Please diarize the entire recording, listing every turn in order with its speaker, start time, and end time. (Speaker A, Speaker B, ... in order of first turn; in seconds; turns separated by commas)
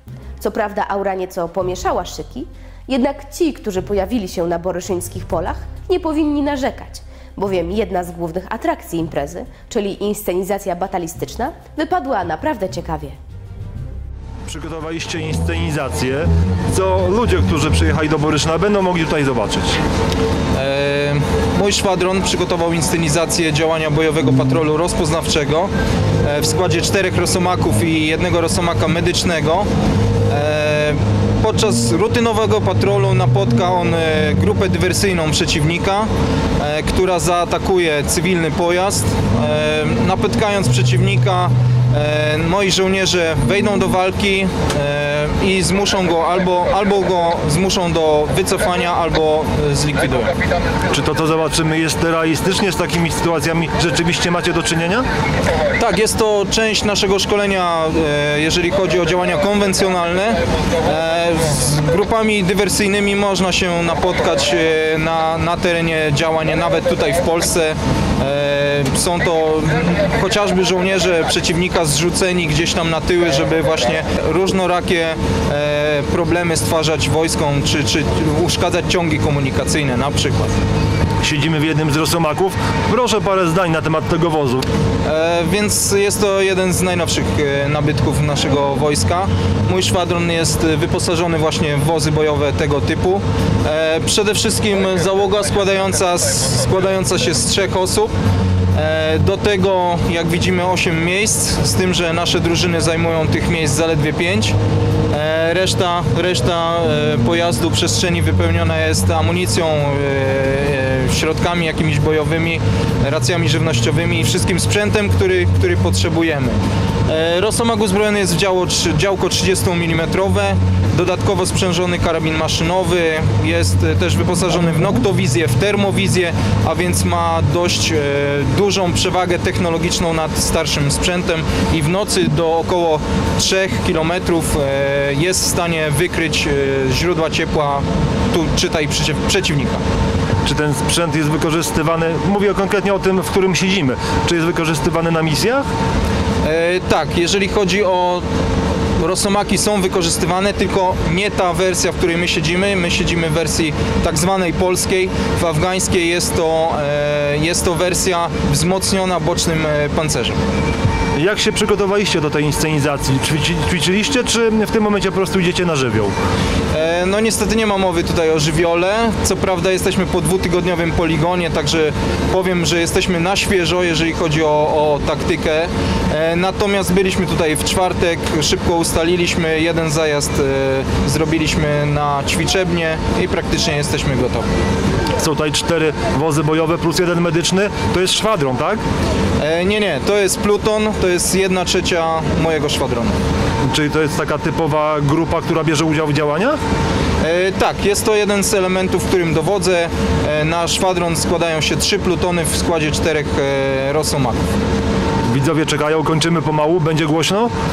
Speaker A: 0.4-13.2, Speaker B: 14.5-19.8, Speaker C: 20.6-25.7, Speaker C: 26.2-29.7, Speaker C: 30.3-36.1, Speaker C: 36.6-50.4, Speaker B: 50.9-55.1, Speaker C: 55.8-80.5, Speaker B: 81.2-84.7, Speaker C: 85.0-98.1, Speaker C: 98.8-104.5, Speaker C: 105.1-139.8, Speaker B: 140.4-145.7, Speaker C: 146.4-148.2, Speaker C: 149.0-160.4, Speaker B: 161.2-166.2, Speaker C: 166.7-184.5, Speaker B: 185.2-188.8, Speaker C: 189.4-193.2, Speaker B: 193.7-196.6, Speaker C: 197.2-204.5, Speaker B: 205.2-207.5